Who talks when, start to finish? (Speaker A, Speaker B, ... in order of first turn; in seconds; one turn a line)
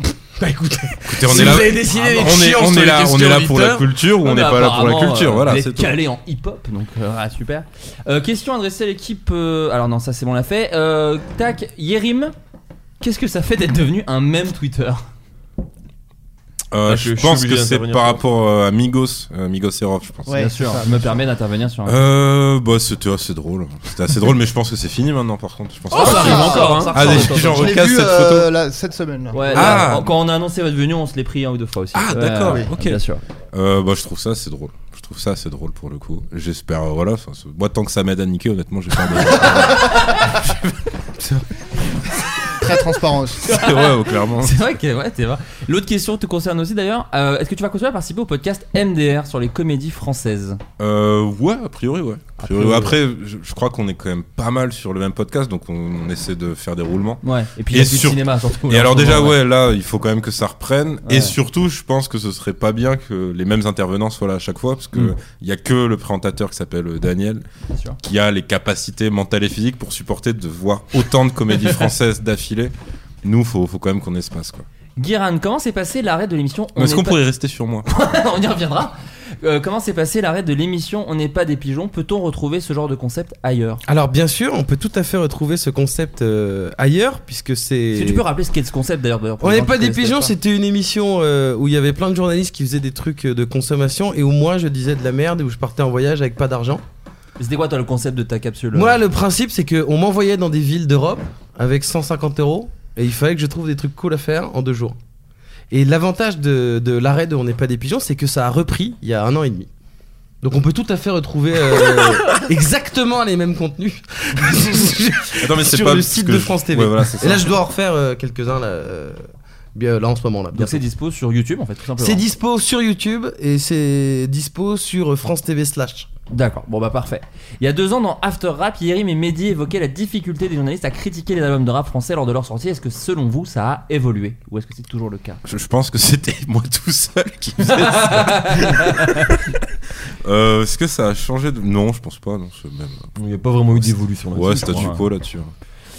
Speaker A: 0.4-3.9
Speaker B: 1.1-6.0
Speaker C: 1.9-2.2
Speaker C: 4.2-12.3
Speaker C: 13.0-15.0
Speaker B: 16.7-20.4
Speaker D: 16.9-18.2
Speaker E: 20.3-20.8
Speaker C: 20.4-22.0
Speaker B: 21.9-28.5
Speaker D: 25.9-27.2
Speaker C: 25.9-27.8
Speaker E: 26.0-29.8
Speaker C: 29.3-33.2
Speaker B: 29.6-30.1
Speaker B: 31.9-33.0
Speaker E: 32.5-32.7
Speaker B: 33.5-40.5
Speaker C: 39.4-40.5
Speaker E: 42.5-43.4
Speaker C: 43.4-50.6
Speaker B: 43.5-44.6
Speaker B: 50.8-67.4
Speaker C: 52.4-52.9
Speaker C: 57.2-59.4
Speaker C: 61.1-61.4
Speaker B: 68.0-74.7
Speaker C: 75.0-77.2
Speaker B: 76.8-77.9
Speaker C: 77.9-83.8
Speaker A: 83.9-88.2
Speaker C: 87.9-90.3
Speaker A: 89.4-96.8
Speaker C: 97.4-99.0
Speaker A: 98.7-105.0
Speaker A: 105.7-109.7
Speaker A: 110.4-119.2
Speaker B: 115.4-117.5
Speaker A: 119.8-120.8
Speaker C: 120.5-122.2
Speaker A: 122.0-126.1
Speaker C: 126.3-135.4
Speaker B: 135.5-139.4
Speaker C: 137.7-139.3
Speaker B: 140.2-143.1
Speaker D: 143.2-144.9
Speaker B: 143.8-145.5
Speaker C: 144.8-145.0